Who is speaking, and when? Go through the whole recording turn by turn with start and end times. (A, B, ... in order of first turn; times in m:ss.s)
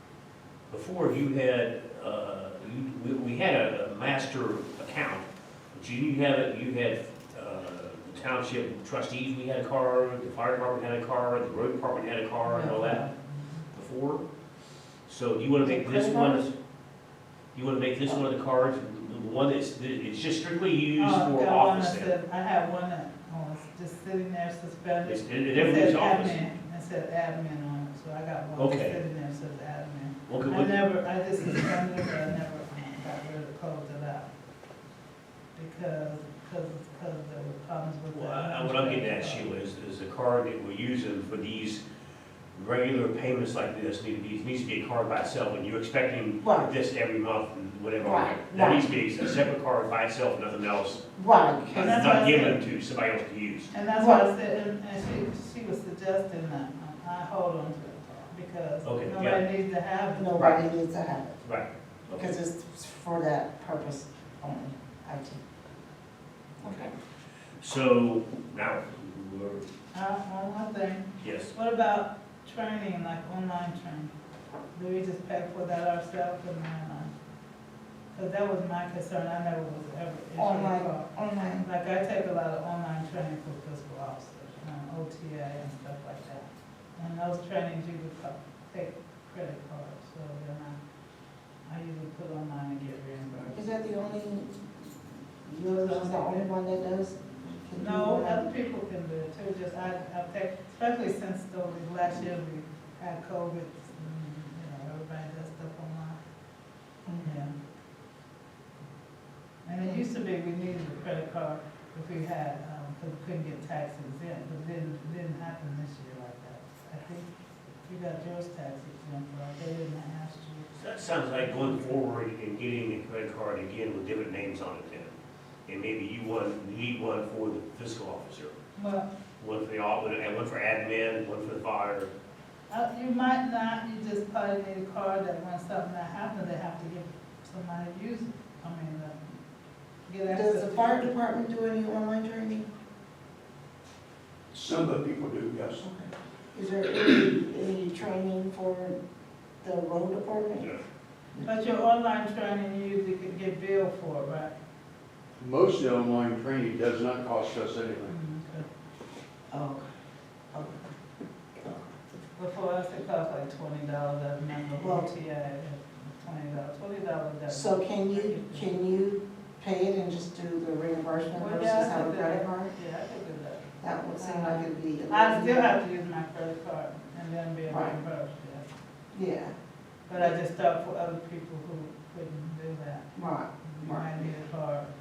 0:00.7-0:13.0 A
0:12.4-0:13.6 B
0:13.7-0:14.2 A
0:15.1-0:16.5 A
0:15.6-0:16.5 C
0:17.5-0:22.1 A
0:21.0-0:34.3 B
0:25.0-0:26.4 A
0:28.6-0:29.0 A
0:30.3-0:30.7 A
0:35.5-0:39.5 B
0:38.1-0:41.8 A
0:42.5-0:51.0 A
0:46.4-0:46.7 C
0:48.0-0:48.9 C
0:51.2-0:52.0 C
0:51.6-0:53.7 A
0:51.8-0:52.6 B
0:53.7-1:00.5 B
0:54.0-0:54.2 C
0:58.8-0:59.4 A
1:00.1-1:01.4 C
1:00.3-1:00.6 A
1:01.4-1:02.4 A
1:02.1-1:05.4 C
1:06.6-1:06.9 C
1:07.6-1:09.6 A
1:09.9-1:14.1 B
1:11.2-1:11.5 A
1:14.7-1:17.1 B
1:18.1-1:21.1 B
1:20.4-1:21.6 C
1:21.6-1:30.8 B
1:31.6-1:33.6 B
1:33.5-1:34.5 C
1:35.4-1:38.5 C
1:35.8-1:36.5 B
1:37.8-1:46.2 B
1:47.0-1:47.4 C
1:47.2-1:47.5 B
1:49.6-1:57.3 B
1:57.8-2:00.7 B
2:00.7-2:08.5 A
2:01.2-2:01.9 B
2:08.7-2:09.1 B
2:09.4-2:12.1 A
2:12.7-2:19.2 B
2:20.1-2:21.1 B
2:20.2-2:22.7 C
2:24.5-2:25.8 D
2:25.8-2:29.0 C
2:29.6-2:30.7 C
2:31.4-2:34.5 B
2:35.4-2:38.1 D
2:38.1-2:38.6 B
2:39.5-2:39.8 C
2:40.5-2:40.8 C
2:41.6-2:42.0 C
2:42.4-2:48.7 B
2:44.8-2:45.1 C
2:47.5-2:52.7 C
2:51.4-2:58.7 B
2:53.8-2:55.8 C
2:57.7-2:58.0 C
2:59.1-2:59.5 C
3:00.1-3:03.1 B
3:03.1-3:04.3 C
3:03.6-3:04.9 B